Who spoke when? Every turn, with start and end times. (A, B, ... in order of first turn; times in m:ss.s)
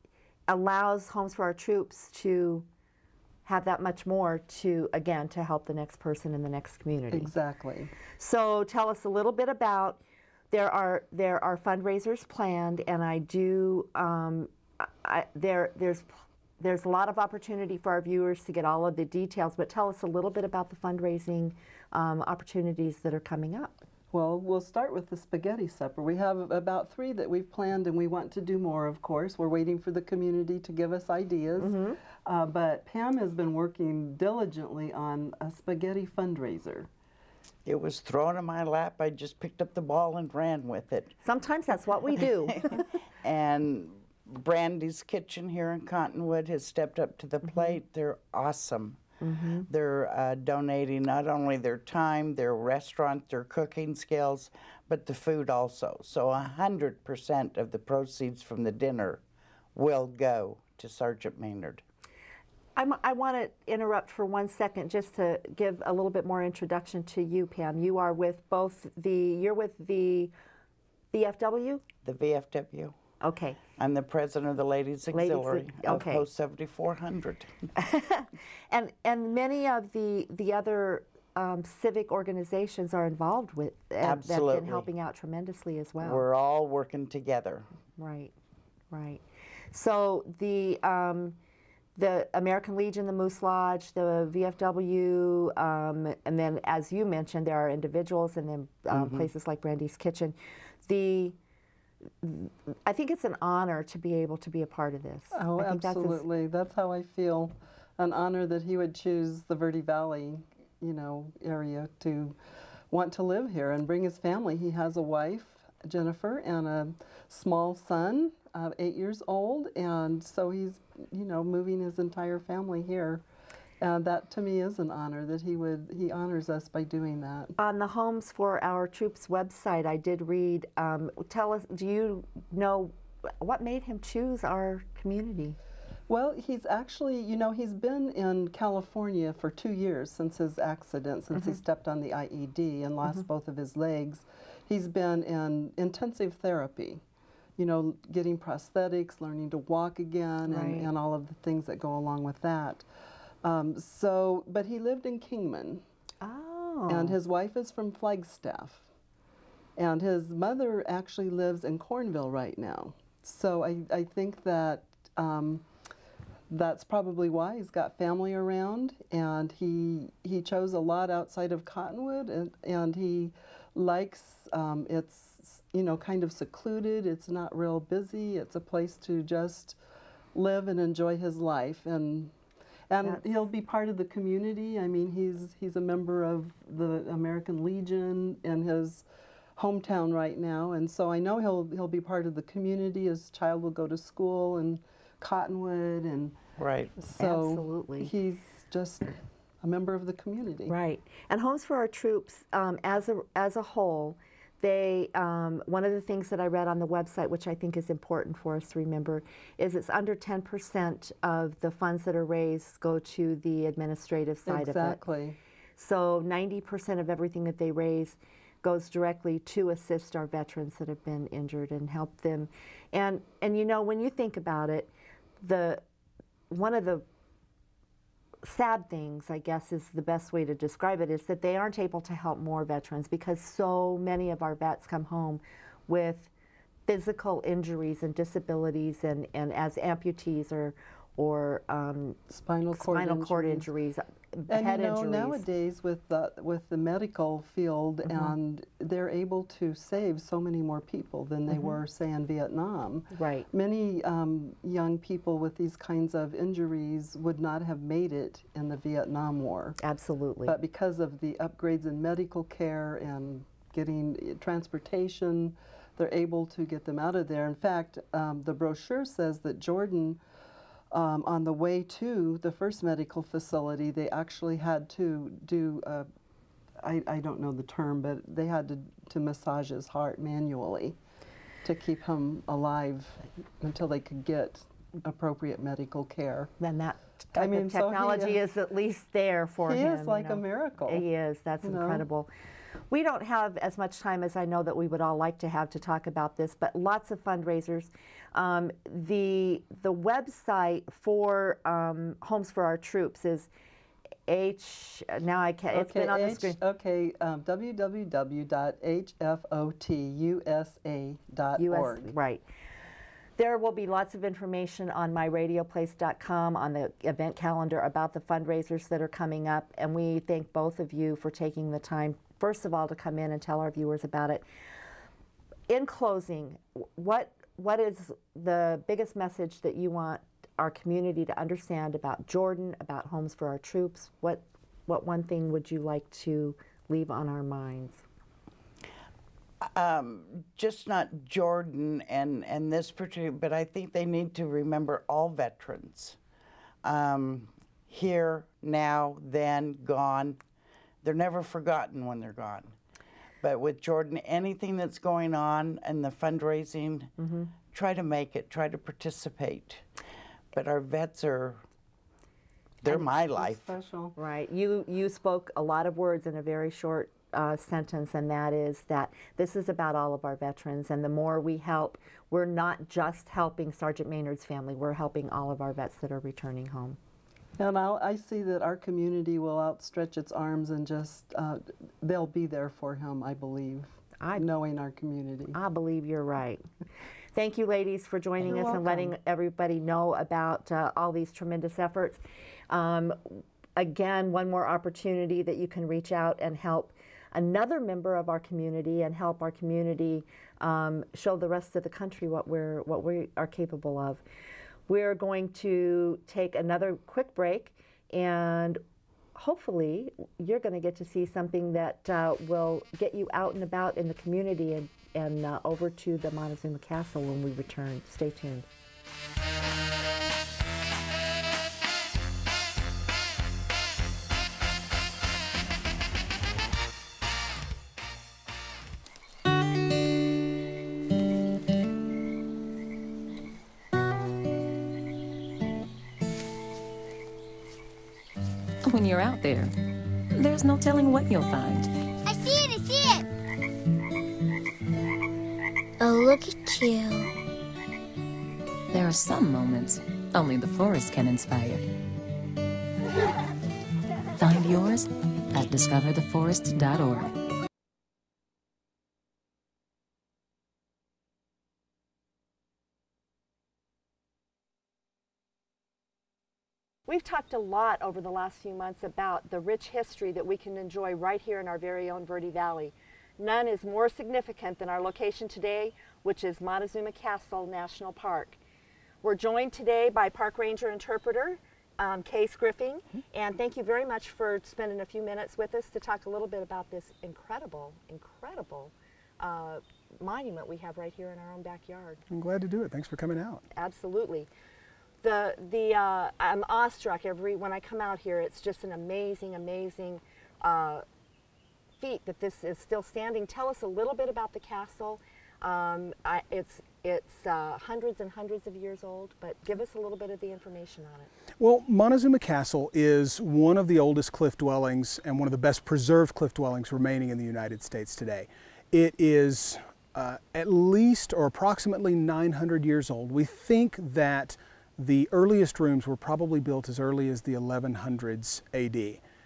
0:00.5-0:02.7 A
0:03.4-0:07.3 A
0:07.1-0:07.9 B
0:08.2-0:23.8 A
0:24.1-0:36.9 B
0:31.6-0:32.0 A
0:37.6-0:41.2 C
0:41.2-0:42.8 A
0:42.7-0:49.0 C
0:47.4-0:47.8 A
0:49.2-0:49.7 A
0:49.7-0:59.2 C
0:59.7-1:01.8 C
1:02.8-1:10.3 A
1:11.1-1:11.9 A
1:12.0-1:13.0 C
1:13.2-1:13.6 A
1:13.8-1:17.7 C
1:15.1-1:16.2 A
1:17.8-1:26.2 A
1:24.0-1:24.9 C
1:26.0-1:27.7 C
1:28.0-1:28.3 A
1:28.9-1:31.4 A
1:32.0-1:41.4 A
1:38.9-1:39.3 C
1:42.2-1:46.2 A
1:45.3-1:52.4 B
1:52.9-2:03.2 B
2:03.8-2:07.5 B
2:07.6-2:15.6 A
2:16.1-2:27.0 B
2:27.6-2:32.8 B
2:30.5-2:30.9 A
2:33.4-2:35.8 B
2:36.2-2:37.1 A
2:36.9-2:38.8 B
2:39.8-2:45.6 B
2:46.5-2:59.8 B
3:00.3-3:02.3 B
3:02.9-3:09.0 B
3:03.0-3:03.4 A
3:09.6-3:16.4 B
3:16.6-3:16.9 C
3:17.0-3:20.8 B
3:17.2-3:18.1 A
3:20.7-3:35.0 A
3:34.4-3:35.4 B
3:35.8-3:45.8 A
3:46.5-3:47.0 A
3:48.4-3:56.3 A
3:56.9-4:02.2 A
4:02.3-4:03.7 B
4:02.7-4:05.4 A
4:04.5-4:19.8 B
4:08.1-4:08.3 A
4:11.5-4:11.8 A
4:13.1-4:13.5 A
4:19.8-4:20.6 A
4:20.4-4:30.2 B
4:30.9-4:36.1 B
4:36.8-4:41.0 B
4:41.6-4:46.5 B
4:46.6-4:52.3 A
4:47.3-4:48.4 B
4:49.6-4:51.0 B
4:51.6-4:52.0 B
4:52.9-5:03.5 A
5:04.3-5:06.6 A
5:05.7-5:12.1 B
5:11.6-5:12.4 A
5:13.4-5:24.4 A
5:25.7-5:38.0 A
5:39.6-5:46.2 C
5:46.8-5:50.4 C
5:51.0-5:52.7 C
5:53.4-5:57.1 C
5:57.2-5:57.5 A
5:57.7-5:59.8 C
6:00.5-6:01.6 C
6:02.8-6:03.7 C
6:02.9-6:04.2 B
6:04.2-6:17.0 A
6:17.6-6:25.6 B
6:24.2-6:24.5 A
6:25.5-6:26.6 A
6:27.3-6:44.2 A
6:28.4-6:29.0 B
6:44.9-6:48.8 A
6:49.3-6:58.6 A
7:18.8-7:19.7 D
7:20.4-7:21.9 D
7:22.3-7:23.2 E
7:26.0-7:27.2 E
7:28.9-7:31.8 D
7:34.4-7:37.3 D
7:47.1-7:58.6 A
7:59.2-8:12.2 A
8:12.3-8:13.6 F
8:13.7-8:14.5 A
8:15.2-8:21.0 A
8:22.0-8:31.3 A
8:31.6-8:49.2 F